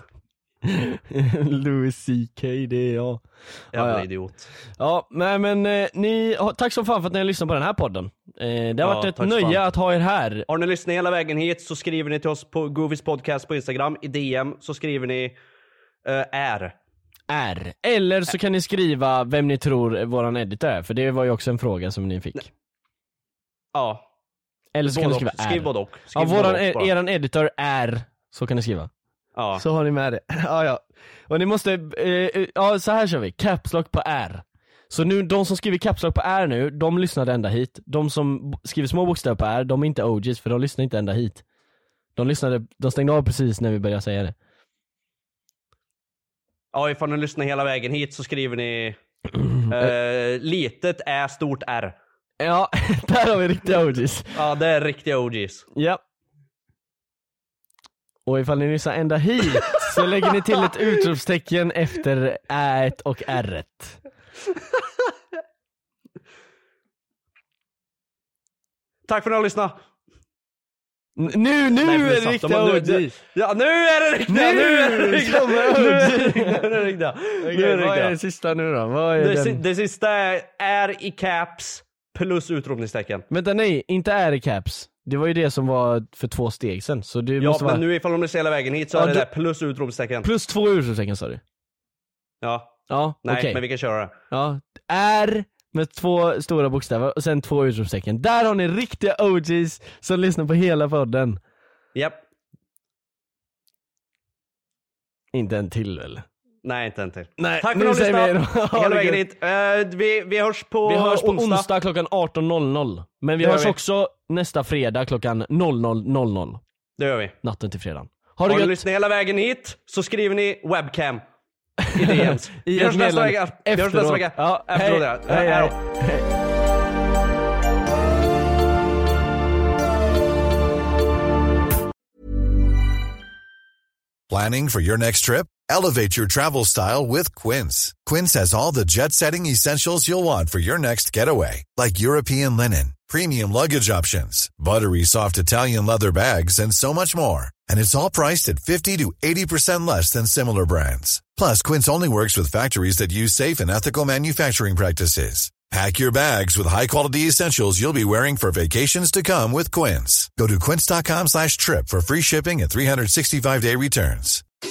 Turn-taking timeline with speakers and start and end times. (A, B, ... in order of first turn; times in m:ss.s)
0:00.6-0:04.1 A
0:03.7-0:04.5 B
0:04.8-0:10.5 A
0:08.8-0:09.7 B
0:10.5-0:15.4 B
0:16.0-0:16.8 B
0:17.3-0:22.5 A
0:23.7-0:24.0 B
0:24.7-0:28.9 A
0:24.8-0:26.9 B
0:29.4-0:29.6 B
0:29.6-0:41.4 A
0:42.2-0:44.4 A
0:46.7-0:49.0 B
0:49.7-0:52.0 B
0:52.4-0:54.4 A
0:54.3-0:55.7 B
0:55.8-0:56.0 A
0:58.3-1:04.0 A
1:09.1-1:09.8 B
1:11.2-1:13.2 A
1:11.8-1:18.2 B
1:14.3-1:16.7 A
1:17.4-1:19.6 A
1:19.2-1:23.3 B
1:23.3-1:27.8 A
1:27.4-1:30.3 B
1:28.9-1:29.3 A
1:30.2-1:31.4 A
1:32.4-1:34.1 B
1:32.9-1:33.6 A
1:34.3-1:41.4 A
1:42.0-1:42.2 B
1:45.3-1:46.3 A
1:46.6-1:51.7 B
1:47.4-1:49.2 A
1:50.9-1:56.6 A
1:53.4-1:53.8 B
1:57.0-1:57.4 B
1:57.4-1:58.9 A
1:58.5-2:01.2 B
2:01.9-2:06.3 A
2:01.9-2:05.8 B
2:14.3-2:44.4 C